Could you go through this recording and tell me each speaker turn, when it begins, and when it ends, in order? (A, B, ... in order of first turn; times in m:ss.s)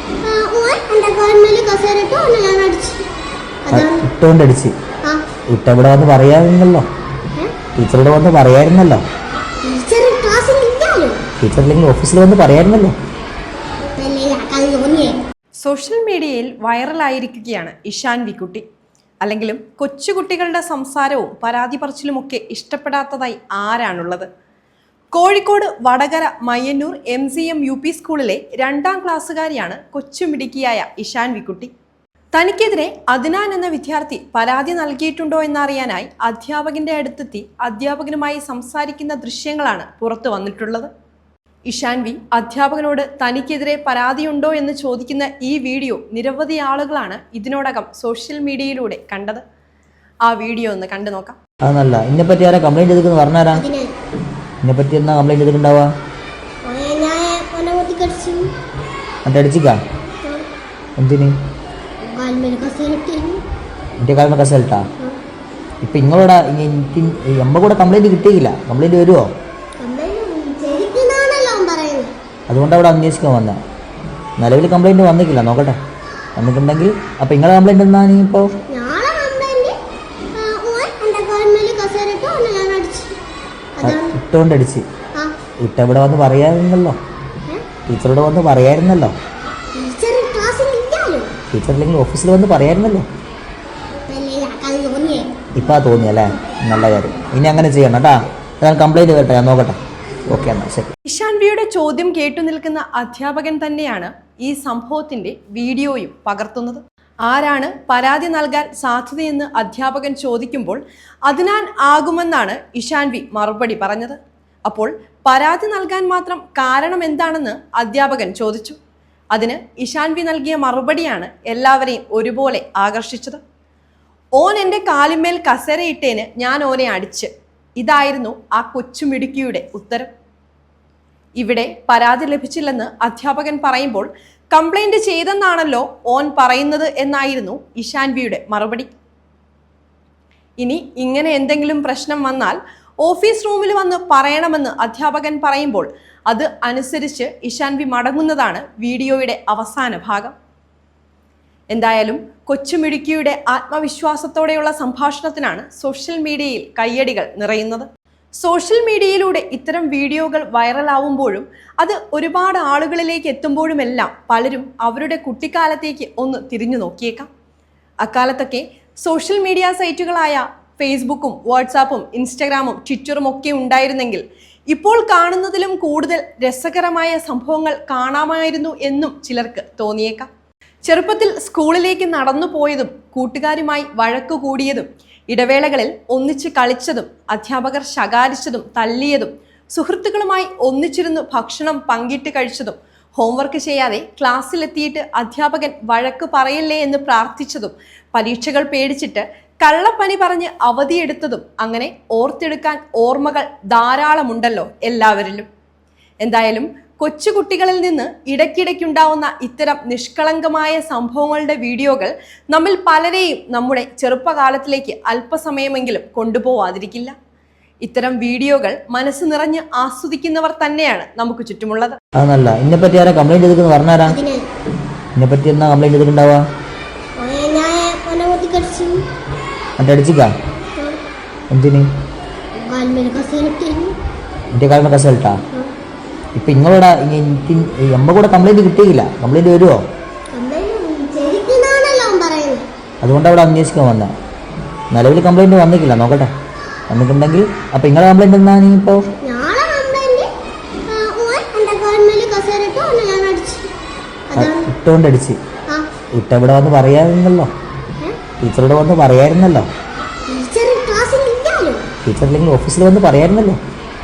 0:00.2-0:03.1 A
0:03.6-0:04.0 A
0:03.7-0:04.7 B
0:05.5-0:06.8 B
0:07.7-0:09.0 B
0:09.6-0:11.2 A
0:11.4-0:12.9 B
0:14.0-0:15.2 A
0:15.6-0:18.6 C
0:19.2-0:24.3 C
0:25.1-0:31.7 C
0:32.3-0:40.9 C
0:41.6-0:49.4 C
0:50.2-0:51.4 C
0:51.6-0:53.6 B
0:53.5-0:53.9 A
0:54.6-0:55.9 B
0:56.6-0:58.5 A
0:59.2-0:59.8 B
1:01.0-1:01.4 B
1:02.0-1:03.4 A
1:04.0-1:04.8 B
1:05.8-1:09.2 B
1:09.8-1:12.1 A
1:12.5-1:13.6 B
1:14.4-1:15.8 B
1:16.4-1:18.5 B
1:18.7-1:19.7 A
1:20.3-1:23.2 A
1:23.8-1:24.2 A
1:23.8-1:24.8 B
1:25.6-1:27.0 B
1:27.9-1:29.1 B
1:29.8-1:31.3 A
1:31.5-1:33.0 B
1:34.1-1:35.4 A
1:35.5-1:39.8 B
1:40.3-1:40.9 B
1:41.0-1:58.8 C
1:59.3-2:03.4 C
2:04.4-2:10.1 C
2:11.4-2:18.9 C
2:20.6-2:30.3 C
2:31.7-2:37.9 C
2:38.4-2:47.3 C
2:48.0-3:00.3 C
3:00.8-3:25.5 C
3:26.2-3:37.1 C
3:37.8-3:42.0 C
3:42.2-3:44.2 B
3:44.0-3:44.4 A
3:45.2-3:46.4 B
3:47.2-3:49.1 A
3:49.8-3:50.3 B
3:51.5-3:51.9 B
3:52.7-3:53.9 A
3:54.6-3:55.4 B
3:56.4-3:59.8 B
4:00.3-4:02.6 A
4:03.0-4:04.1 B
4:04.9-4:06.3 B
4:06.9-4:09.1 B
4:09.2-4:10.3 A
4:10.9-4:13.7 A
4:14.3-4:14.7 A
4:14.4-4:15.4 B
4:16.2-4:17.5 B
4:18.4-4:19.7 B
4:20.3-4:21.8 A
4:22.0-4:23.6 B